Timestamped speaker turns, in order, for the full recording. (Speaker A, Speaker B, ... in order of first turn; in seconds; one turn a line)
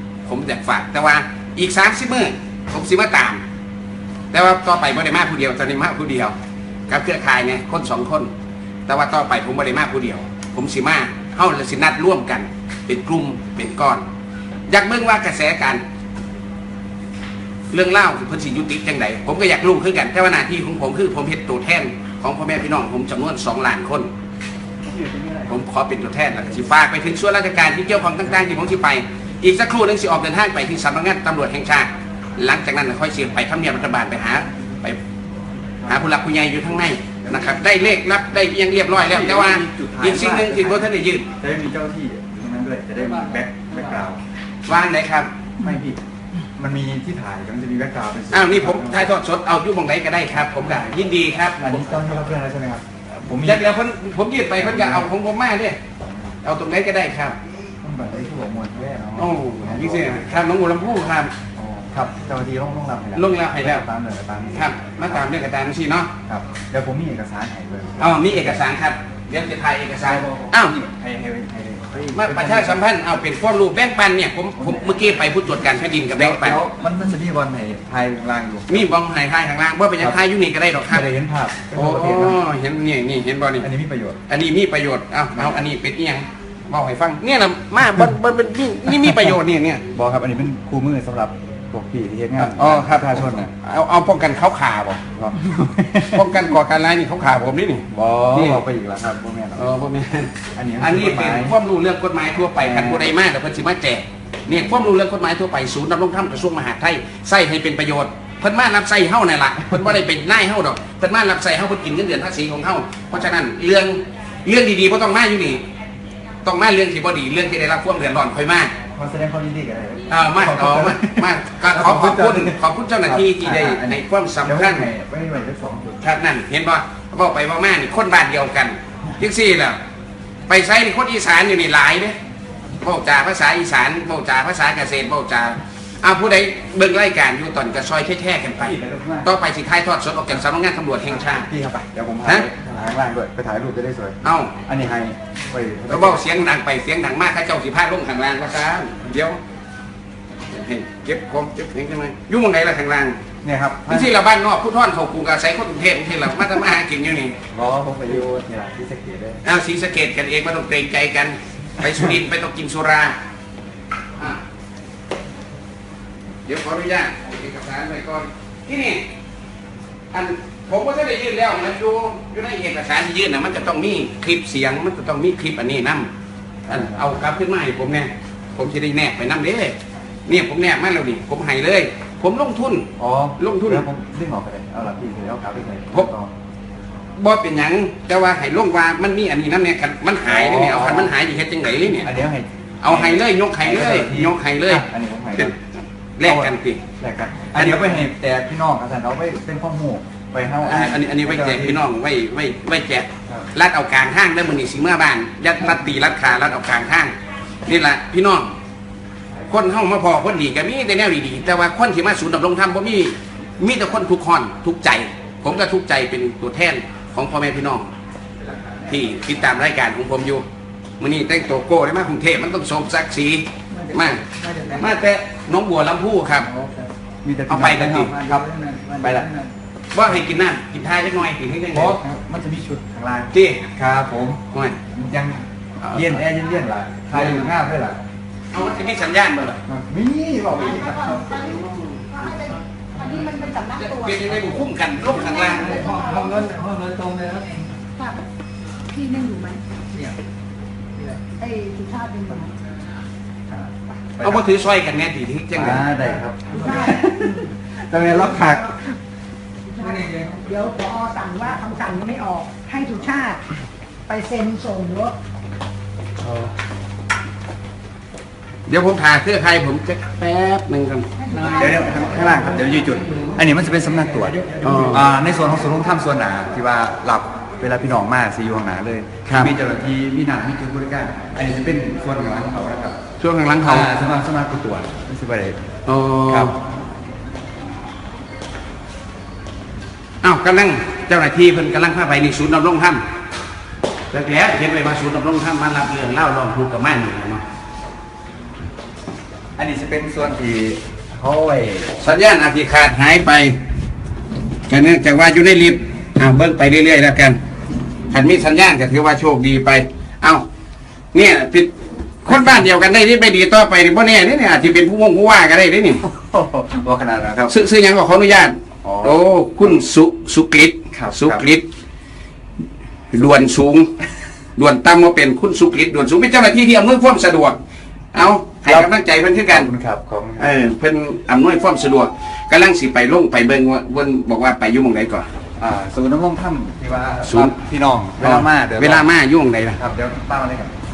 Speaker A: 0.2-3.4
Speaker A: 4.3-6.3
Speaker A: 6.9-8.3
Speaker A: 8.9-14.1
Speaker A: 14.7-15.8
Speaker A: 17.7-24.1
Speaker B: 24.8-25.6
Speaker A: 25.5-35.0
Speaker A: 35.9-41.3
Speaker B: 38.9-40.9
Speaker B: 41.4-44.2
Speaker A: 44.7-45.3
Speaker B: 45.6-46.0
Speaker B: 46.6-49.2
Speaker A: 48.3-52.0
Speaker B: 51.6-53.7
Speaker A: 53.4-55.8
Speaker B: 54.6-55.1
Speaker A: 56.4-57.4
Speaker B: 57.8-60.4
Speaker A: 59.2-61.3
Speaker B: 61.6-65.2
Speaker A: 63.1-63.9
Speaker A: 64.5-66.1
Speaker B: 66.3-68.7
Speaker A: 68.0-70.8
Speaker B: 70.0-72.8
Speaker A: 72.2-76.6
Speaker B: 74.6-78.8
Speaker A: 78.7-81.1
Speaker B: 80.9-82.4
Speaker A: 81.7-83.7
Speaker B: 83.6-84.2
Speaker A: 84.3-89.8
Speaker B: 89.9-93.5
Speaker A: 92.4-95.0
Speaker B: 95.2-96.5
Speaker A: 96.0-98.6
Speaker B: 97.9-99.6
Speaker A: 99.6-115.6
Speaker B: 100.5-101.6
Speaker B: 102.6-103.1
Speaker A: 116.5-118.7
Speaker B: 119.0-126.0
Speaker A: 120.1-124.9
Speaker A: 126.0-129.8
Speaker A: 130.5-132.2
Speaker A: 132.8-141.5
Speaker B: 138.6-139.3
Speaker B: 141.5-146.3
Speaker A: 144.2-144.5
Speaker A: 145.9-149.4
Speaker A: 150.5-153.2
Speaker B: 153.4-154.1
Speaker A: 153.9-157.4
Speaker B: 157.5-159.4
Speaker A: 159.4-163.2
Speaker A: 166.5-169.0
Speaker A: 170.1-176.1
Speaker A: 176.7-179.8
Speaker B: 176.7-177.0
Speaker A: 180.3-183.8
Speaker B: 183.0-186.3
Speaker A: 187.2-192.1
Speaker B: 190.3-191.1
Speaker B: 192.0-195.6
Speaker A: 192.8-194.8
Speaker A: 196.2-196.8
Speaker B: 196.2-201.8
Speaker A: 197.5-197.8
Speaker A: 200.6-207.1
Speaker A: 207.7-208.6
Speaker A: 209.5-217.9
Speaker A: 218.9-220.4
Speaker A: 221.0-226.5
Speaker B: 227.2-229.3
Speaker A: 227.5-228.2
Speaker C: 228.3-229.2
Speaker A: 229.9-232.0
Speaker B: 231.7-234.4
Speaker A: 233.3-233.7
Speaker A: 234.5-234.8
Speaker B: 234.9-238.0
Speaker A: 235.8-236.2
Speaker A: 237.1-237.5
Speaker A: 238.5-239.6
Speaker B: 239.7-241.4
Speaker D: 240.6-244.5
Speaker A: 241.6-242.0
Speaker A: 243.8-245.9
Speaker D: 245.2-246.5
Speaker C: 245.8-247.7
Speaker D: 247.9-248.2
Speaker D: 248.9-249.6
Speaker D: 251.4-252.5
Speaker B: 253.5-254.5
Speaker A: 254.2-255.8
Speaker B: 255.6-258.9
Speaker D: 256.6-257.0
Speaker D: 259.7-263.4
Speaker C: 259.9-260.4
Speaker D: 264.1-265.2
Speaker A: 268.7-271.1
Speaker D: 271.2-272.4
Speaker B: 271.4-283.0
Speaker A: 274.6-275.1
Speaker A: 279.2-279.5
Speaker A: 283.2-283.9
Speaker B: 283.6-285.6
Speaker A: 285.9-286.6
Speaker B: 286.3-286.5
Speaker A: 290.2-293.0
Speaker A: 294.1-297.4
Speaker B: 299.6-302.0
Speaker A: 302.0-303.6
Speaker A: 304.7-307.4
Speaker A: 308.1-310.4
Speaker A: 311.1-311.7
Speaker A: 312.2-316.0
Speaker B: 316.0-317.5
Speaker A: 317.5-321.6
Speaker B: 318.8-319.2
Speaker B: 320.9-321.5
Speaker A: 323.1-323.9
Speaker A: 324.6-327.6
Speaker A: 328.1-329.7
Speaker B: 328.6-328.9
Speaker B: 329.5-330.5
Speaker A: 330.4-335.3
Speaker B: 335.6-339.1
Speaker A: 337.3-337.6
Speaker A: 338.2-339.8
Speaker B: 339.8-340.7